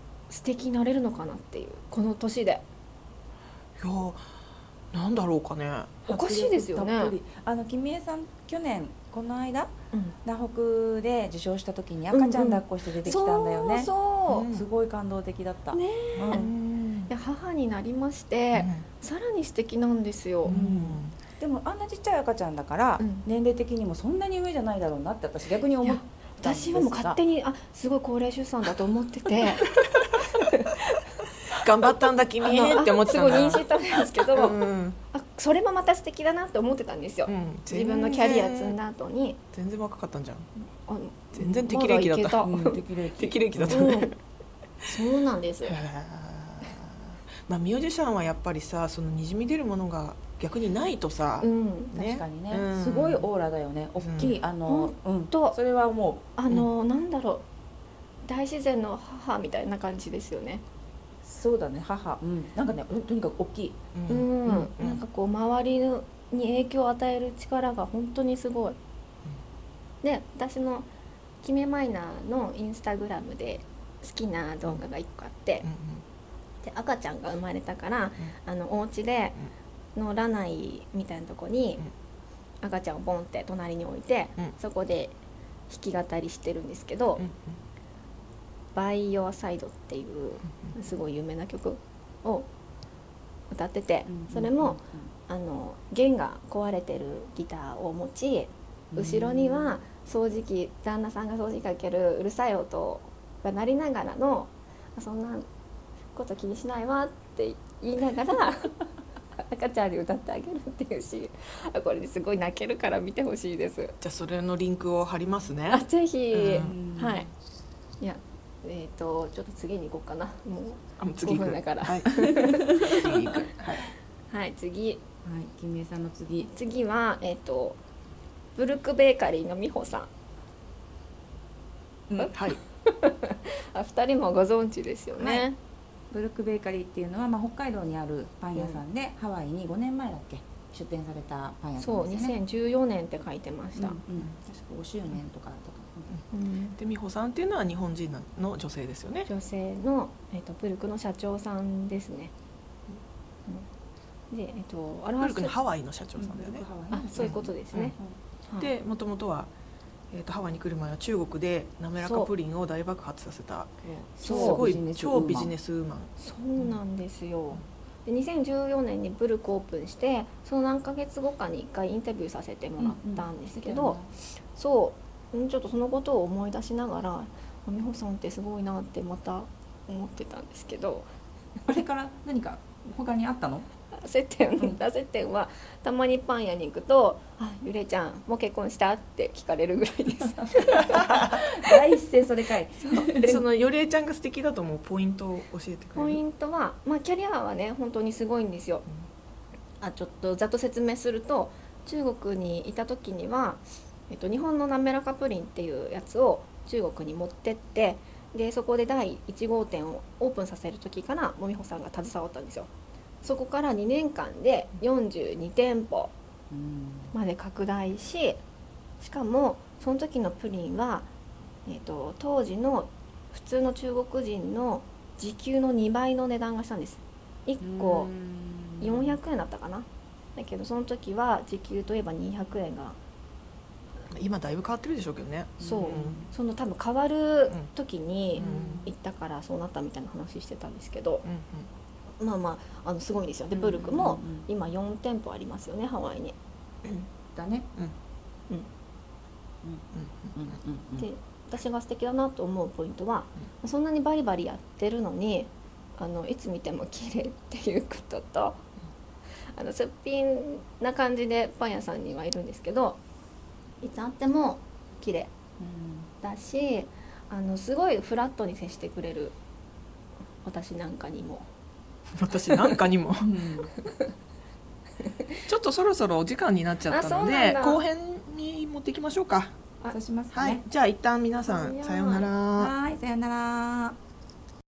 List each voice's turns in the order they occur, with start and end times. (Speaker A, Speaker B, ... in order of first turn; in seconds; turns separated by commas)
Speaker A: 0.3-2.6, Speaker B: 3.8-4.2, Speaker B: 4.9-6.0, Speaker A: 6.1-7.1, Speaker C: 6.1-9.7, Speaker A: 9.9-10.2, Speaker C: 10.2-13.9, Speaker A: 12.1-14.5, Speaker B: 14.3-14.6, Speaker C: 14.4-16.5, Speaker A: 15.7-16.5, Speaker B: 16.2-17.1, Speaker A: 17.1-20.6, Speaker B: 18.5-18.8, Speaker B: 20.4-21.1, Speaker C: 20.5-27.2, Speaker A: 23.0-23.2, Speaker A: 25.8-29.7, Speaker A: 30.2-30.8, Speaker B: 31.5-35.0, Speaker A: 32.4-39.4, Speaker B: 37.3-38.8, Speaker B: 39.5-40.5, Speaker A: 40.8-42.8, Speaker B: 41.3-42.5, Speaker C: 42.4-43.9, Speaker B: 43.1-44.1, Speaker A: 43.7-44.1, Speaker A: 44.8-45.8, Speaker B: 45.6-53.3, Speaker A: 51.4-51.9, Speaker C: 51.9-56.2, Speaker B: 54.0-54.3, Speaker A: 54.2-55.6, Speaker A: 56.4-57.4, Speaker A: 58.2-60.6, Speaker C: 61.2-63.8, Speaker B: 63.9-65.0, Speaker A: 64.1-68.8, Speaker A: 70.0-70.9, Speaker A: 71.4-75.7, Speaker B: 75.6-76.0, Speaker A: 76.6-79.4, Speaker A: 79.9-81.9, Speaker A: 82.6-85.2, Speaker A: 85.7-87.3, Speaker B: 87.2-87.5, Speaker A: 88.8-92.5, Speaker A: 93.5-105.5, Speaker C: 94.1-95.1, Speaker C: 98.9-99.8, Speaker A: 106.1-108.7, Speaker A: 109.4-113.9, Speaker B: 114.0-116.8, Speaker A: 115.7-117.3, Speaker C: 116.5-117.3, Speaker A: 118.0-123.4, Speaker B: 121.0-123.9, Speaker A: 124.3-125.0, Speaker C: 125.2-126.5, Speaker A: 126.5-127.8, Speaker A: 128.6-130.1, Speaker C: 132.1-132.4, Speaker B: 132.3-132.6, Speaker A: 132.8-135.6, Speaker C: 135.1-135.5, Speaker C: 136.1-142.3, Speaker A: 141.8-144.0, Speaker C: 143.8-146.2, Speaker A: 146.3-146.8, Speaker B: 146.8-149.3, Speaker A: 149.2-152.3, Speaker A: 154.3-155.5, Speaker B: 155.2-156.7, Speaker C: 156.2-158.2, Speaker A: 156.9-158.0, Speaker B: 157.2-157.9, Speaker B: 158.6-159.5, Speaker B: 160.1-166.7, Speaker A: 162.0-162.3, Speaker C: 163.9-165.5, Speaker A: 164.2-164.6, Speaker A: 166.2-181.1, Speaker C: 172.8-174.1, Speaker C: 181.7-183.7, Speaker A: 183.9-191.4, Speaker C: 190.7-193.4, Speaker B: 193.1-196.2, Speaker A: 195.9-198.9, Speaker A: 199.8-212.7, Speaker A: 213.2-216.1, Speaker C: 216.5-217.1, Speaker A: 217.1-218.4, Speaker A: 219.0-221.1, Speaker A: 221.7-228.1, Speaker C: 227.6-229.2, Speaker A: 228.8-233.0, Speaker B: 234.1-236.2, Speaker C: 235.6-236.3, Speaker A: 235.6-241.2, Speaker C: 238.4-238.9, Speaker B: 238.4-238.9, Speaker B: 241.2-241.7, Speaker A: 242.2-246.4, Speaker C: 243.5-244.5, Speaker C: 247.3-247.7, Speaker C: 249.6-251.1, Speaker A: 251.0-258.6, Speaker A: 259.5-263.0, Speaker A: 263.8-265.3, Speaker C: 265.6-266.1, Speaker A: 266.2-269.4, Speaker A: 270.4-271.5, Speaker B: 272.1-273.3, Speaker C: 273.2-273.7, Speaker B: 275.5-279.5, Speaker A: 276.9-277.8, Speaker C: 279.9-280.6, Speaker B: 280.3-282.7, Speaker A: 281.4-282.3, Speaker C: 282.6-284.0